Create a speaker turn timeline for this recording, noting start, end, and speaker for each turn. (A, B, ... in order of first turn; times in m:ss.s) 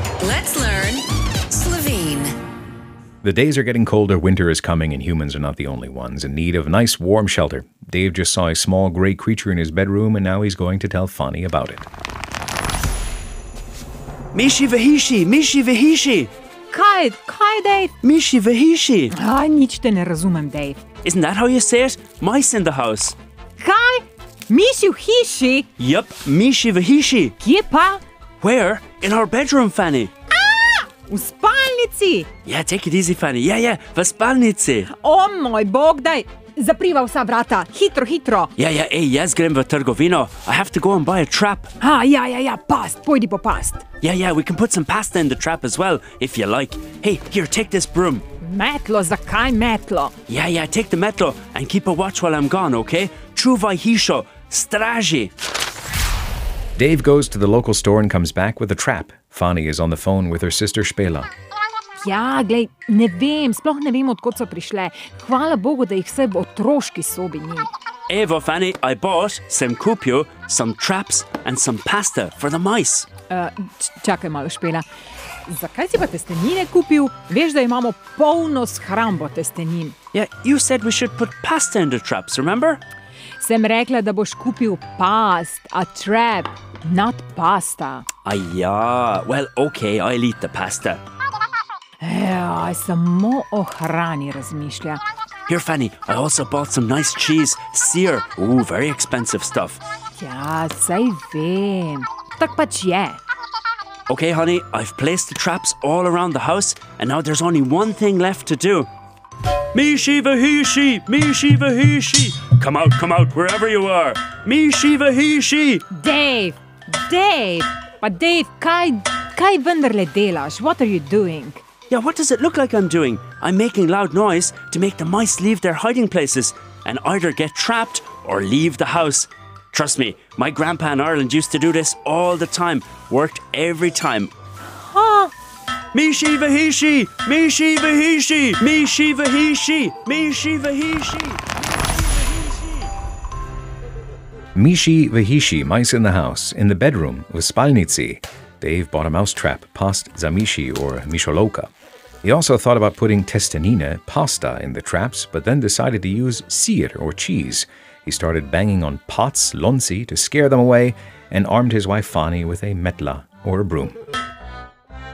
0:00.2-0:02.3 A
0:03.2-0:11.9 B
0:14.3-0:16.3 C
0:16.7-0:17.9 D
0:18.0-0:19.2 C
0:19.1-0:20.8 D
0:21.0-0:23.2 C
0:23.6-0:25.7 D
0:25.8-0:27.4 C
0:27.4-0:28.0 D
0:28.4-0:30.1 C
0:30.3-0:32.3 D
0:32.4-0:34.9 C
0:34.9-0:38.5 D
0:38.6-0:41.7 C
0:41.8-0:43.8 D
0:44.0-0:48.2 C
0:48.4-0:50.1 D
0:50.3-0:55.3 C
0:56.8-1:01.3 B
1:02.0-1:07.7 D
1:08.1-1:13.1 C
1:13.3-1:14.8 D
1:15.5-1:19.9 D
1:20.1-1:22.8 C
1:23.4-1:28.1 D
1:28.2-1:31.0 C
1:32.0-1:35.0 D
1:35.5-1:39.8 C
1:40.2-1:43.2 D
1:44.1-1:48.9 C
1:49.7-1:55.8 C
1:55.9-2:01.6 D
2:01.9-2:14.3 C
2:14.8-2:15.3 D
2:15.9-2:22.9 C
2:24.5-2:31.7 B
2:32.2-2:44.0 B